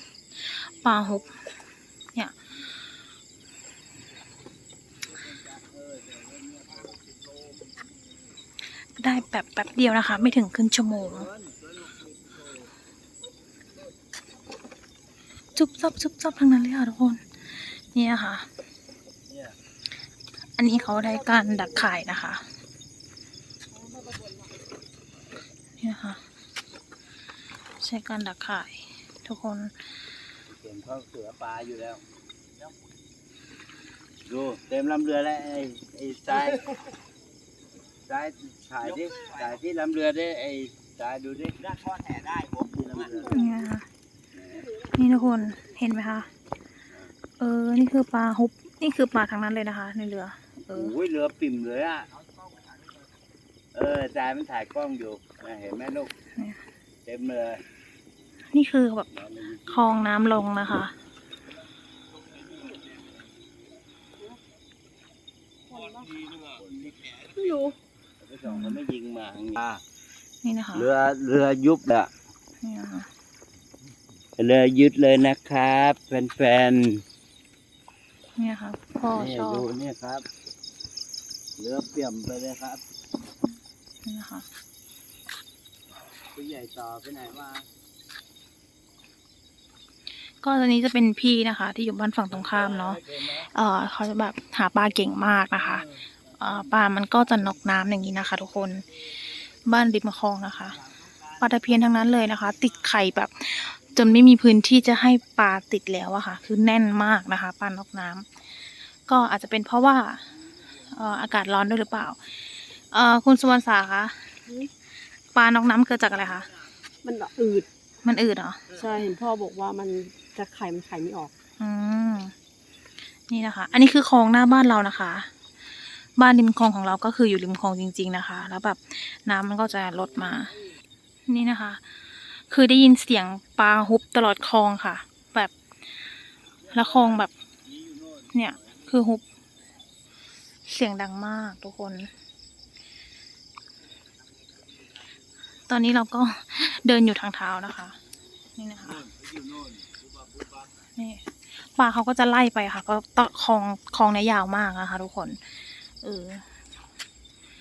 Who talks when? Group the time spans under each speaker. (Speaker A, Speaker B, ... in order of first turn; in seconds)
Speaker A: 0.4-1.3, 8.9-11.3, 15.6-18.5, 20.6-22.5, 25.8-26.2, 27.8-29.9, 43.3-43.9, 44.9-46.3, 47.4-50.9, 58.5-59.1, 59.6-61.0, 68.4-68.8, 70.4-70.9, 72.6-73.1, 78.4-79.7, 84.0-84.5, 90.4-99.0, 99.5-100.8, 101.4-108.4, 109.0-114.4, 115.3-116.5, 118.0-118.8, 121.6-122.3, 123.3-125.3, 126.2-130.5, 131.3-135.5, 136.7-137.3, 138.3-139.2, 140.6-142.1, 145.7-148.0, 148.6-149.1, 150.9-156.5
Speaker B: 5.1-6.9, 11.0-12.4, 19.3-19.5, 30.5-32.0, 34.2-36.6, 38.1-43.4, 44.4-44.7, 50.7-52.1, 53.7-56.1, 57.0-57.6, 59.1-59.9, 66.5-67.1, 68.2-69.8, 70.7-72.1, 74.4-77.0, 79.1-80.3, 81.6-82.8, 86.3-87.7, 100.9-101.3, 136.6-138.3, 148.9-150.6
Speaker C: 23.7-24.5, 65.7-66.2, 67.3-67.8, 117.0-117.7, 118.7-121.3